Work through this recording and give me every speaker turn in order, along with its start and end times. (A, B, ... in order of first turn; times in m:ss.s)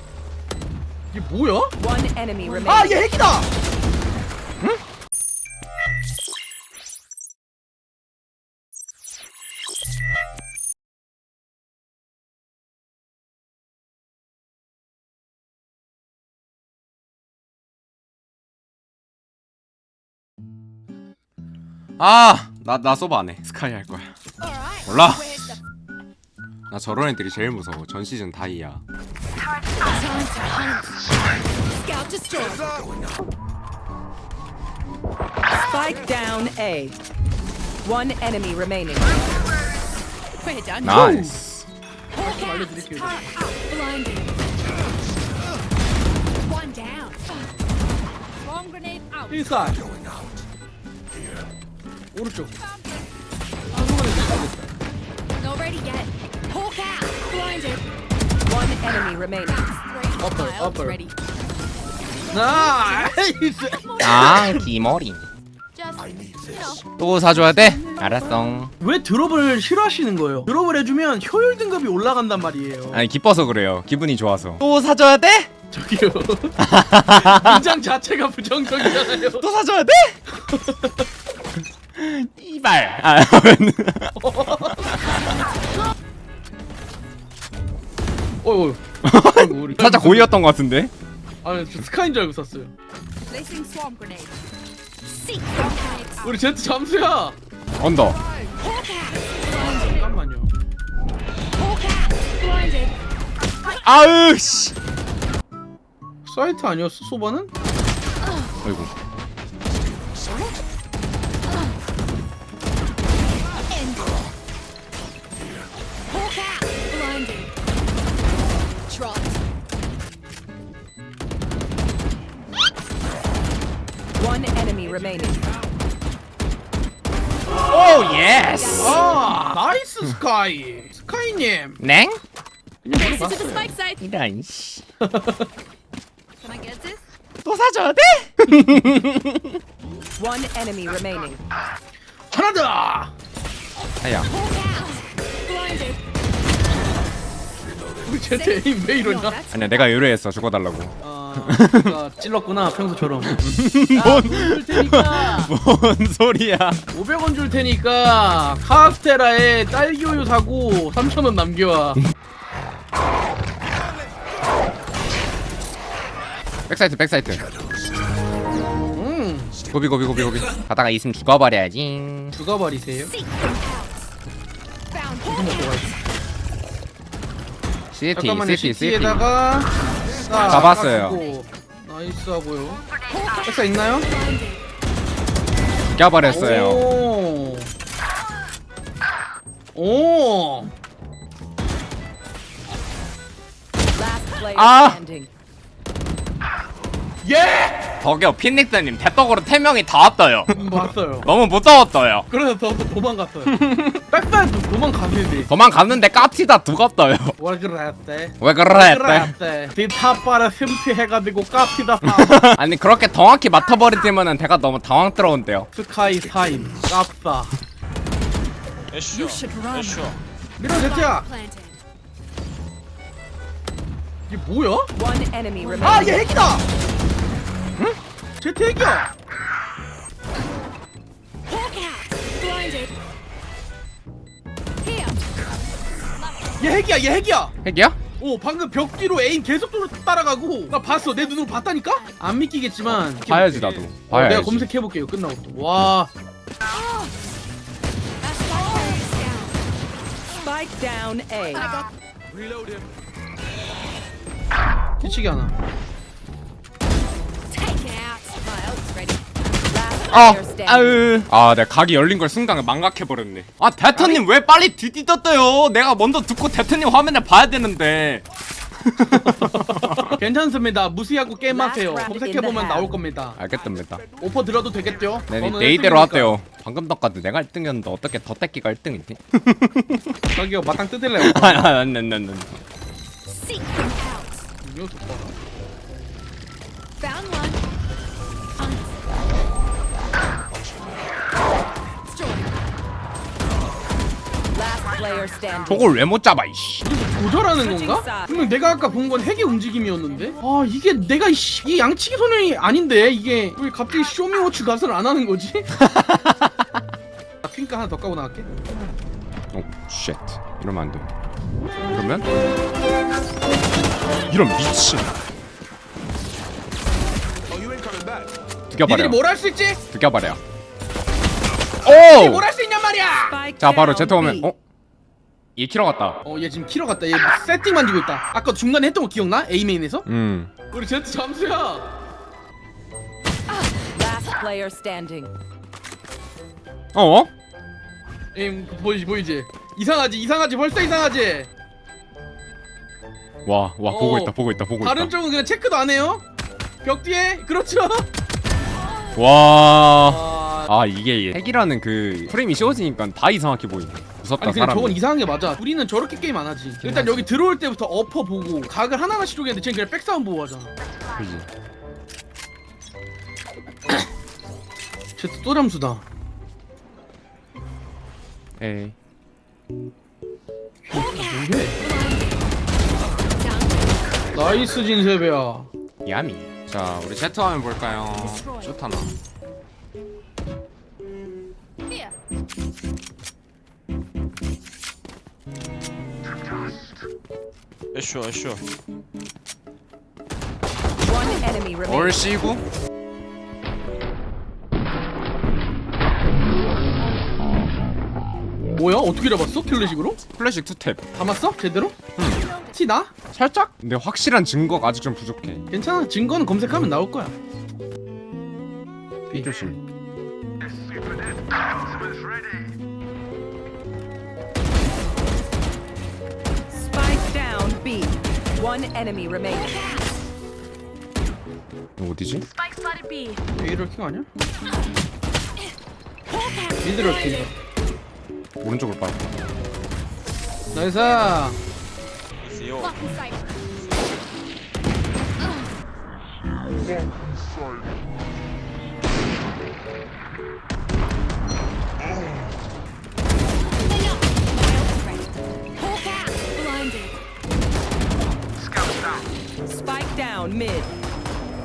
0:01.1-0:01.8 A
0:01.8-0:03.1 B
0:02.5-0:02.8 C
0:02.7-0:03.5 A
0:22.0-0:24.1 D
0:24.4-0:25.6 C
0:24.9-0:25.4 D
0:26.7-0:28.8 D
0:29.8-0:31.0 C
0:31.8-0:32.9 C
0:35.5-0:37.0 B
0:37.8-0:39.2 B
0:40.4-0:41.1 C
0:40.8-0:41.7 D
0:40.8-0:41.4 A
0:42.2-0:43.3 A
0:42.2-0:44.3 C
0:46.4-0:47.5 C
0:48.4-0:49.5 C
0:49.3-0:49.9 A
0:52.1-0:52.6 A
0:53.7-0:54.7 A
0:55.4-0:57.8 C
0:58.4-0:59.7 B
0:59.5-1:01.1 C
1:00.2-1:01.0 A
1:02.3-1:04.7 A
1:02.3-1:03.1 C
1:03.8-1:04.4 C
1:04.0-1:05.2 D
1:05.8-1:06.9 C
1:07.0-1:08.7 D
1:08.8-1:13.0 A
1:12.9-1:15.5 D
1:15.7-1:16.6 A
1:16.6-1:17.6 D
1:17.2-1:19.5 A
1:18.8-1:20.2 D
1:20.5-1:21.0 A
1:22.0-1:24.9 D
1:24.2-1:24.9 A
1:28.4-1:30.4 A
1:29.0-1:30.9 D
1:31.4-1:32.7 A
1:33.3-1:34.4 C
1:35.2-1:36.4 C
1:36.2-1:37.4 A
1:37.8-1:38.2 D
1:38.6-1:40.1 C
1:39.6-1:40.5 A
1:41.6-1:42.9 C
1:43.7-1:44.8 D
1:46.2-1:47.5 A
1:48.6-1:48.9 D
1:53.7-1:54.1 C
1:56.1-1:57.5 C
1:58.9-1:59.4 C
2:04.2-2:05.4 B
2:07.7-2:09.0 D
2:08.6-2:09.1 C
2:08.8-2:11.8 A
2:11.8-2:12.2 D
2:12.8-2:13.7 A
2:12.9-2:14.0 C
2:14.0-2:14.8 D
2:15.0-2:15.5 A
2:16.4-2:17.0 C
2:17.4-2:19.6 D
2:20.2-2:21.4 B
2:22.3-2:23.1 A
2:24.0-2:24.3 D
2:24.3-2:26.0 C
2:28.0-2:29.4 A
2:28.3-2:29.4 C
2:29.5-2:29.8 B
2:29.5-2:32.0 D
2:31.0-2:35.5 A
2:33.4-2:36.8 D
2:36.9-2:42.0 A
2:46.7-2:47.5 D
2:48.9-2:49.6 A
2:49.7-2:52.4 D
2:52.3-2:53.1 A
2:53.1-2:53.9 C
2:54.9-2:55.9 C
2:55.2-2:55.9 A
2:57.9-2:59.3 D
2:58.2-3:02.8 A
3:00.4-3:01.2 D
3:03.2-3:03.4 C
3:03.4-3:04.1 A
3:04.0-3:04.6 C
3:05.9-3:06.9 D
3:06.2-3:07.7 A
3:09.8-3:10.7 A
3:14.0-3:15.3 B
3:14.6-3:15.0 D
3:17.2-3:17.8 A
3:18.0-3:20.6 D
3:20.5-3:21.3 A
3:21.2-3:22.3 D
3:22.3-3:25.5 A
3:23.5-3:24.0 D
3:25.5-3:27.4 D
3:27.4-3:32.5 A
3:28.4-3:29.3 D
3:32.0-3:35.7 D
3:35.7-3:37.5 A
3:38.9-3:40.2 E
3:39.1-3:40.0 C
3:40.6-3:41.3 A
3:40.6-3:41.8 C
3:44.3-3:44.9 A
3:44.9-3:46.3 B
3:45.8-3:46.6 A
3:48.4-3:49.1 A
3:51.5-3:52.9 C
3:54.8-3:55.3 C
3:56.2-3:56.7 C
3:56.6-3:57.6 A
3:57.6-3:58.0 D
3:58.2-4:06.1 A
4:02.9-4:04.7 D
4:06.7-4:07.1 C
4:08.2-4:09.6 C
4:10.4-4:11.7 B
4:15.0-4:15.5 A
4:17.5-4:19.3 C
4:19.7-4:21.0 B
4:20.1-4:28.2 D
4:23.9-4:24.2 A
4:28.8-4:30.2 D
4:29.1-4:33.4 A
4:31.5-4:32.9 B
4:33.4-4:34.0 D
4:34.2-4:36.4 A
4:35.3-4:40.1 D
4:40.3-4:41.7 A
4:41.2-4:42.6 D
4:43.3-4:44.4 C
4:44.6-4:45.3 A
4:47.0-4:47.6 C
4:52.2-4:52.4 C
4:54.5-4:55.9 B
4:55.7-4:56.9 D
4:56.8-5:05.7 A
4:57.6-4:58.3 B
5:05.7-5:06.5 D
5:07.4-5:08.5 A
5:09.5-5:11.1 D
5:11.9-5:12.3 D
5:14.3-5:15.1 D
5:18.7-5:19.2 D
5:18.8-5:19.8 A
5:19.9-5:20.4 D
5:21.8-5:22.4 D
5:21.8-5:23.4 A
5:23.1-5:24.5 B
5:23.6-5:24.6 D
5:25.6-5:26.2 D
5:26.2-5:30.1 A
5:30.1-5:30.5 D
5:30.7-5:31.9 A
5:33.8-5:35.3 B
5:36.9-5:37.3 D
5:38.3-5:41.5 A
5:43.4-5:45.1 D
5:43.9-5:46.2 A
5:46.8-5:48.1 A
5:49.2-5:55.0 D
5:50.1-5:50.7 A
5:54.4-6:00.7 A
5:56.8-5:57.3 D
6:01.1-6:01.5 D
6:05.2-6:06.0 A
6:08.6-6:09.0 D
6:10.9-6:11.8 A
6:11.8-6:12.4 C
6:13.4-6:13.9 C
6:14.3-6:15.7 A
6:16.0-6:19.2 D
6:18.2-6:18.7 C
6:27.9-6:28.6 E
6:31.0-6:32.5 B
6:31.8-6:32.6 D
6:38.8-6:40.2 A
6:40.4-6:41.0 D
6:41.2-6:42.0 A
6:42.2-6:42.4 D
6:42.3-6:42.7 C
6:42.7-6:43.1 A
6:43.3-6:45.7 D
6:45.7-6:47.3 A
6:49.3-6:49.8 D
6:56.7-6:59.8 B
6:59.6-7:00.0 C
7:02.0-7:02.5 D
7:02.6-7:03.4 C
7:03.6-7:04.3 A
7:06.3-7:07.5 C
7:06.8-7:07.5 A
7:08.6-7:09.4 D
7:10.7-7:11.6 A
7:12.4-7:13.0 E
7:12.8-7:13.4 C
7:23.8-7:27.2 C
7:29.6-7:30.9 B